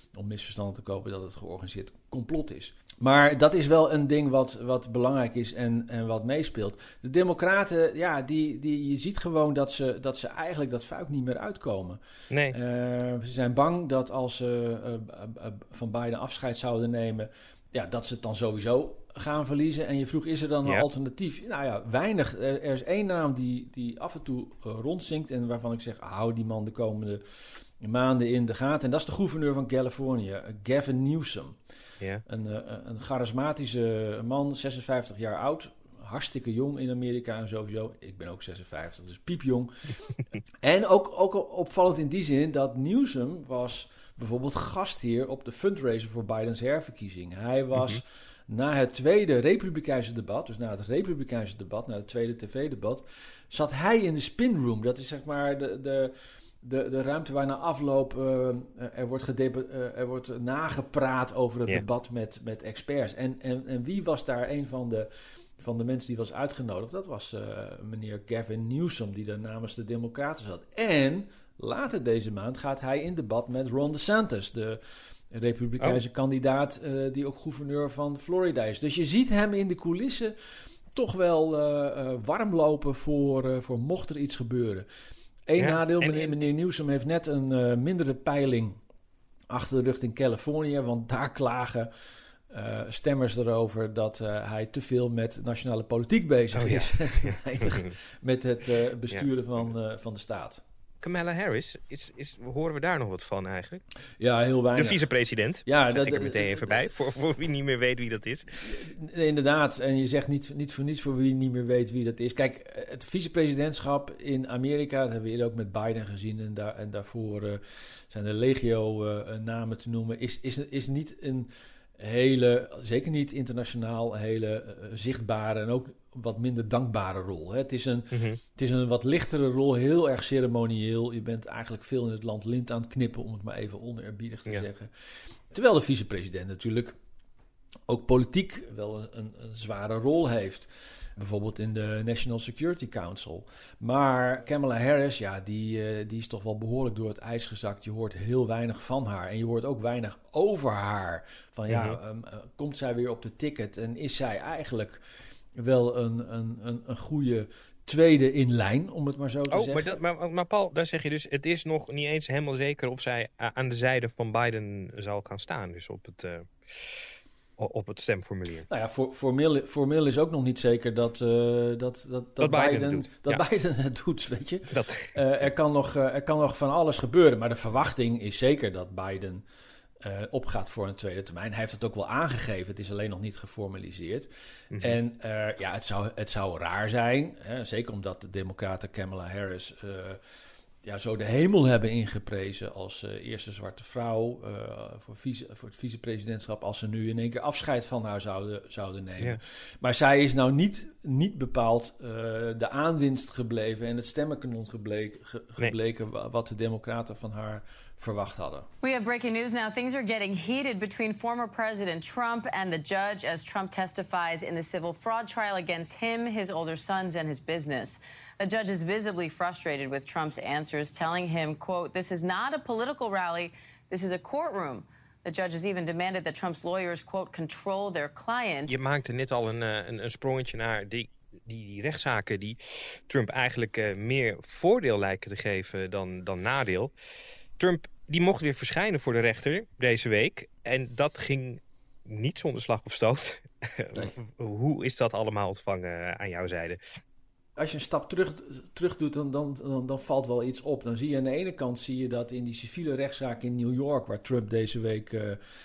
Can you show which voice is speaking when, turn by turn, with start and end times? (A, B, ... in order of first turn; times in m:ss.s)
0:00.1-0:12.0 A
0:12.3-0:12.6 B
0:12.5-0:27.2 A
0:27.8-0:31.5 A
0:32.2-0:39.7 A
0:40.6-1:14.8 A
0:47.8-0:48.0 B
1:15.3-1:20.3 A
1:20.9-1:24.8 A
1:25.5-1:28.8 A
1:25.6-1:26.4 B
1:29.5-1:31.9 A
1:32.5-1:40.6 A
1:36.5-1:37.9 B
1:41.0-1:43.8 B
1:44.2-1:45.1 A
1:44.8-1:48.5 B
1:45.6-1:46.9 A
1:48.6-2:14.9 A
2:08.1-2:08.4 B
2:15.5-2:17.0 A
2:17.9-2:35.0 A
2:31.7-2:32.0 B
2:35.6-2:40.0 A
2:39.5-2:48.7 B
2:48.7-2:59.4 A
2:52.4-2:53.4 B
2:54.7-2:55.2 B
3:00.0-3:10.2 A
3:04.7-3:05.0 B
3:10.8-3:28.6 A
3:28.8-3:48.8 C
3:48.7-3:56.9 B
3:57.6-4:06.8 B
4:07.6-4:15.4 A